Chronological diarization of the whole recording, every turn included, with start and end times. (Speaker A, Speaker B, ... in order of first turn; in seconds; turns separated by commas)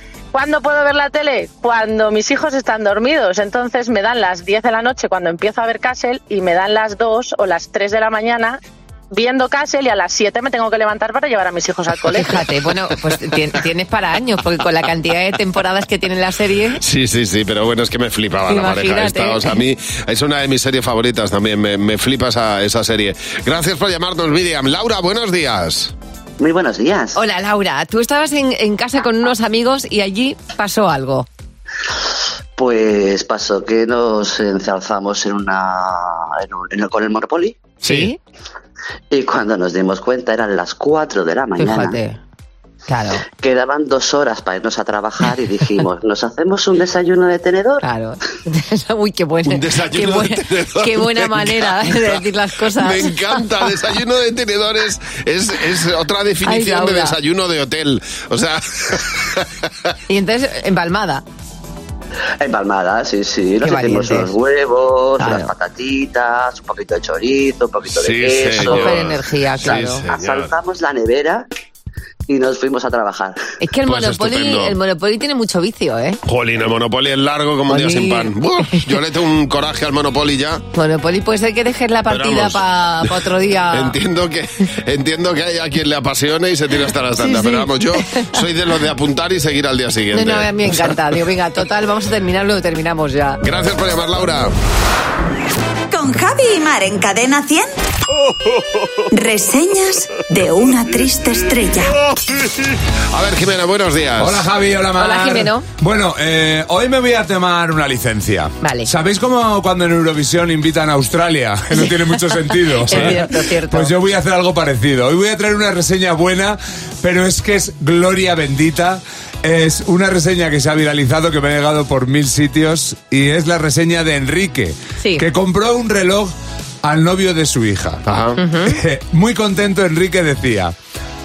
Speaker A: 0.3-8.6, Speaker A: 9.1-12.4, Speaker B: 12.1-16.8, Speaker C: 16.8-25.9, Speaker B: 18.5-19.4, Speaker D: 26.4-27.2, Speaker B: 27.1-31.3, Speaker D: 32.5-37.8, Speaker B: 37.8-38.2, Speaker D: 39.1-42.0, Speaker B: 41.6-42.2, Speaker B: 42.9-43.2, Speaker D: 43.3-47.9, Speaker B: 47.8-53.1, Speaker C: 49.5-52.2, Speaker C: 52.8-59.5, Speaker B: 56.5-57.1, Speaker B: 60.1-61.2, Speaker D: 62.4-71.5, Speaker B: 63.6-64.3, Speaker B: 65.2-65.5, Speaker C: 68.0-70.5, Speaker B: 68.6-70.0, Speaker D: 72.3-73.4, Speaker B: 73.6-76.2, Speaker C: 73.8-74.7, Speaker C: 76.2-80.6, Speaker B: 77.7-78.8, Speaker B: 80.7-84.0, Speaker C: 82.1-83.1, Speaker C: 83.7-90.9, Speaker B: 87.2-88.2, Speaker B: 90.1-93.4, Speaker C: 93.4-94.5, Speaker E: 95.9-97.7, Speaker E: 99.1-102.0, Speaker C: 103.1-104.4, Speaker F: 104.2-128.0, Speaker B: 105.0-105.6, Speaker B: 108.6-108.9, Speaker B: 112.5-113.9, Speaker B: 125.0-125.2, Speaker C: 128.1-128.4, Speaker B: 128.4-128.8, Speaker F: 128.6-130.7